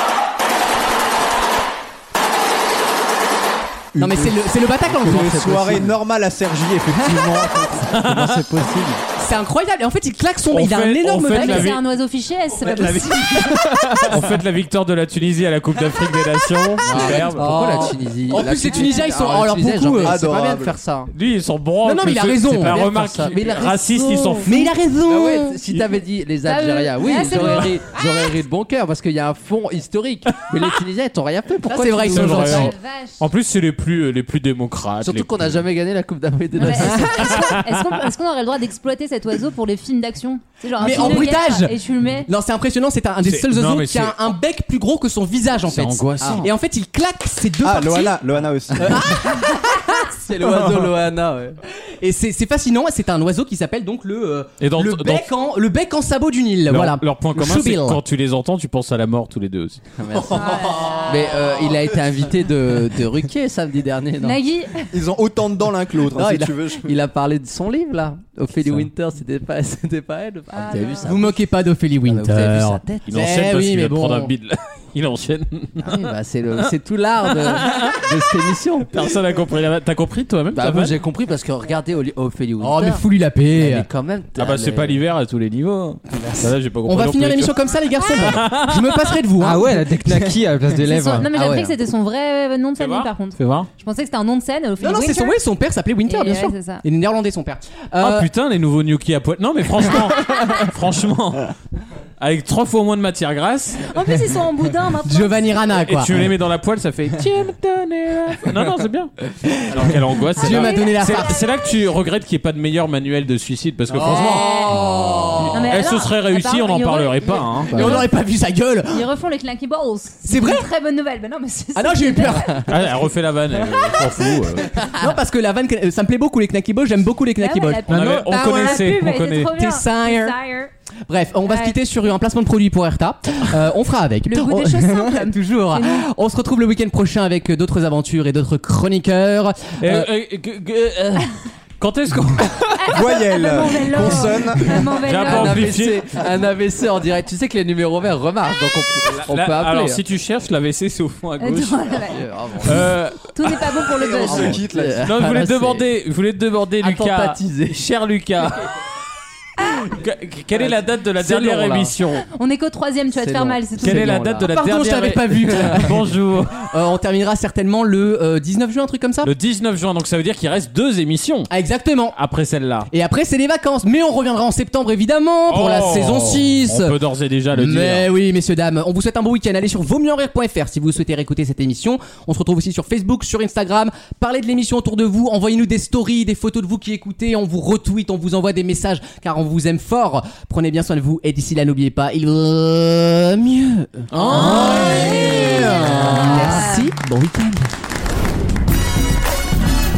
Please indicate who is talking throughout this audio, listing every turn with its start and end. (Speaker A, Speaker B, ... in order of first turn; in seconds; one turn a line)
Speaker A: 4.0-4.3
Speaker B: 4.0-5.9
Speaker C: 4.0-4.3
Speaker C: 4.9-5.9
Speaker A: 5.0-7.9
Speaker B: 6.9-7.4
Speaker D: 7.9-8.5
Speaker C: 7.9-9.0
Speaker B: 9.2-11.8
Speaker D: 10.5-11.8
Speaker E: 11.3-13.4
Speaker B: 12.6-14.2
Speaker F: 13.8-14.2
Speaker D: 14.1-17.9
Speaker C: 16.8-21.1
Speaker B: 16.9-20.2
Speaker A: 20.0-20.8
Speaker D: 21.1-24.5
Speaker B: 21.8-22.9
Speaker C: 22.6-32.6
Speaker B: 24.4-25.6
Speaker E: 26.4-27.8
Speaker B: 31.6-32.7
Speaker D: 32.1-35.6
Speaker E: 32.5-33.3
Speaker C: 35.0-37.5
Speaker E: 36.5-42.3
Speaker B: 36.6-37.1
Speaker D: 37.4-37.7
Speaker B: 40.8-48.2
Speaker C: 40.8-41.2
Speaker D: 43.2-44.3
Speaker D: 45.6-46.5
Speaker C: 46.2-46.5
Speaker A: 47.6-49.4
Speaker B: 48.7-50.9
Speaker C: 50.0-51.6
Speaker B: 51.8-58.0
Speaker D: 54.6-55.3
Speaker D: 56.7-59.8
Speaker C: 60.0-64.4
Speaker A: 60.1-61.9
Speaker E: 60.3-61.7
Speaker E: 64.2-64.9
Speaker A: 64.9-66.9
Speaker B: 66.1-66.5
Speaker C: 66.8-71.4
Speaker E: 70.5-71.1
Speaker B: 71.0-74.3
Speaker C: 72.0-73.1
Speaker D: 73.1-76.6
Speaker C: 75.8-79.0
Speaker D: 77.2-78.0
Speaker D: 78.9-81.0
Speaker C: 80.5-83.0
Speaker B: 82.6-83.9
Speaker C: 83.5-85.0
Speaker D: 84.4-89.2
Speaker B: 86.2-90.4
Speaker E: 88.0-88.4
Speaker F: 89.4-91.3
Speaker E: 90.8-95.4
Speaker B: 91.3-91.7
Speaker D: 92.8-93.7
Speaker B: 94.8-98.3
Speaker E: 96.1-96.8
Speaker D: 98.0-101.5
Speaker D: 102.2-103.9
Speaker E: 103.9-105.8
Speaker B: 105.0-106.3
Speaker D: 105.8-114.5
Speaker B: 109.7-111.4
Speaker E: 110.4-111.0
Speaker B: 114.0-115.5
Speaker E: 114.0-114.7
Speaker C: 114.0-115.6
Speaker D: 115.3-118.0
Speaker E: 115.5-118.1
Speaker B: 117.7-119.0
Speaker E: 118.9-122.5
Speaker B: 120.3-120.7
Speaker B: 121.7-122.8
Speaker D: 122.7-124.7
Speaker B: 123.6-130.4
Speaker E: 127.4-130.7
Speaker D: 127.9-129.5
Speaker B: 131.1-140.1
Speaker E: 131.5-131.8
Speaker E: 134.2-136.1
Speaker D: 139.8-142.9
Speaker E: 142.8-145.7
Speaker A: 142.9-144.9
Speaker D: 144.7-146.2
Speaker C: 145.1-150.0
Speaker D: 149.1-151.9
Speaker E: 151.4-152.2
Speaker C: 152.0-152.9
Speaker D: 152.6-153.8
Speaker E: 153.3-154.6
Speaker A: 153.9-155.1
Speaker C: 154.1-155.9
Speaker D: 155.0-158.7
Speaker C: 156.8-157.7
Speaker D: 159.6-162.2
Speaker C: 160.5-162.0
Speaker E: 162.3-164.2
Speaker C: 163.1-164.6
Speaker D: 163.8-166.7
Speaker B: 164.4-169.3
Speaker C: 165.5-165.9
Speaker D: 169.2-171.5
Speaker B: 171.5-172.2
Speaker D: 172.1-172.9
Speaker B: 172.9-177.0
Speaker D: 175.5-178.1
Speaker B: 177.5-197.7
Speaker D: 194.1-196.4
Speaker C: 194.1-196.7
Speaker E: 194.3-196.9